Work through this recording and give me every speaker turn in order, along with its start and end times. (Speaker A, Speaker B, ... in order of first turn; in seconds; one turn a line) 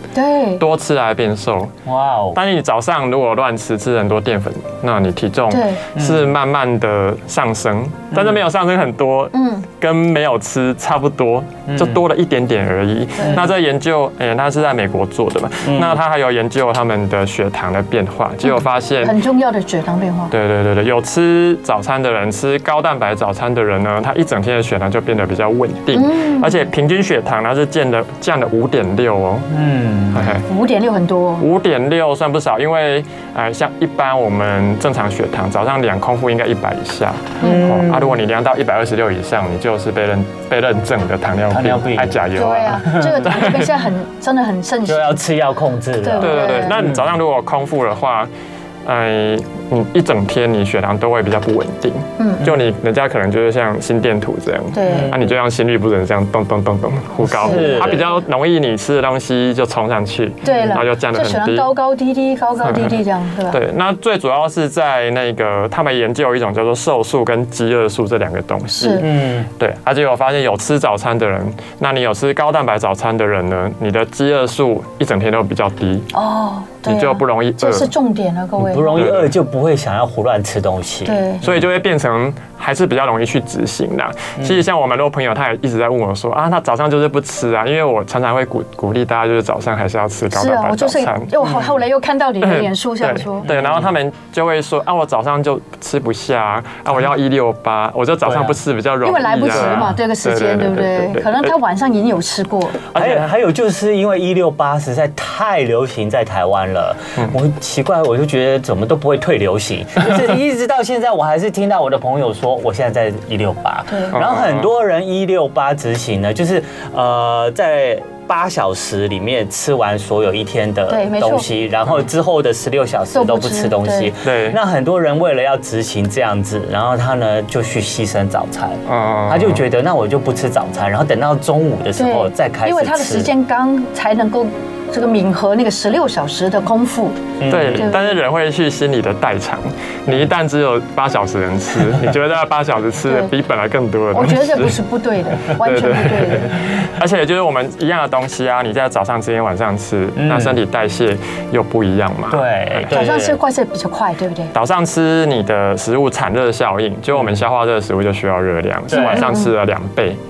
Speaker A: 0.1-0.6
Speaker B: 0.6-1.7
Speaker C: 1.9-2.4
Speaker B: 2.3-19.2
Speaker A: 5.5-5.8
Speaker C: 6.0-6.3
Speaker A: 9.3-9.7
Speaker C: 11.7-12.0
Speaker C: 13.2-13.5
Speaker C: 15.7-16.0
Speaker A: 18.4-20.3
Speaker B: 20.3-29.5
Speaker A: 25.9-26.6
Speaker C: 29.5-30.4
Speaker B: 30.1-30.5
Speaker A: 30.5-31.4
Speaker B: 31.4-43.7
Speaker C: 37.4-38.2
Speaker C: 41.5-42.2
Speaker A: 42.4-45.2
Speaker C: 42.9-43.4
Speaker C: 44.9-47.1
Speaker A: 46.0-46.8
Speaker B: 46.2-48.3
Speaker B: 48.9-61.7
Speaker A: 52.2-52.4
Speaker A: 54.7-55.1
Speaker C: 54.9-55.4
Speaker C: 57.2-58.1
Speaker A: 57.4-58.1
Speaker A: 60.4-63.6
Speaker C: 60.5-60.8
Speaker B: 62.6-63.0
Speaker B: 63.5-76.1
Speaker A: 68.7-69.1
Speaker C: 69.0-69.5
Speaker A: 76.1-79.0
Speaker B: 76.8-77.9
Speaker C: 78.6-81.5
Speaker B: 79.0-79.3
Speaker A: 81.0-81.4
Speaker B: 81.4-91.7
Speaker C: 84.4-84.6
Speaker A: 90.3-93.5
Speaker B: 92.4-101.5
Speaker C: 93.5-93.9
Speaker C: 98.2-98.6
Speaker A: 99.0-102.8
Speaker C: 99.6-99.9
Speaker B: 102.9-103.3
Speaker C: 102.9-133.3
Speaker A: 113.9-114.2
Speaker B: 114.1-114.7
Speaker A: 120.9-121.5
Speaker A: 123.1-124.1
Speaker B: 124.2-124.6
Speaker B: 128.9-129.6
Speaker A: 132.0-138.2
Speaker C: 137.4-137.9
Speaker B: 137.5-144.8
Speaker A: 144.1-146.6
Speaker B: 145.4-153.0
Speaker C: 150.2-150.6
Speaker C: 152.3-153.4
Speaker A: 152.9-154.5
Speaker B: 154.5-160.2
Speaker C: 158.9-159.3
Speaker A: 158.9-159.5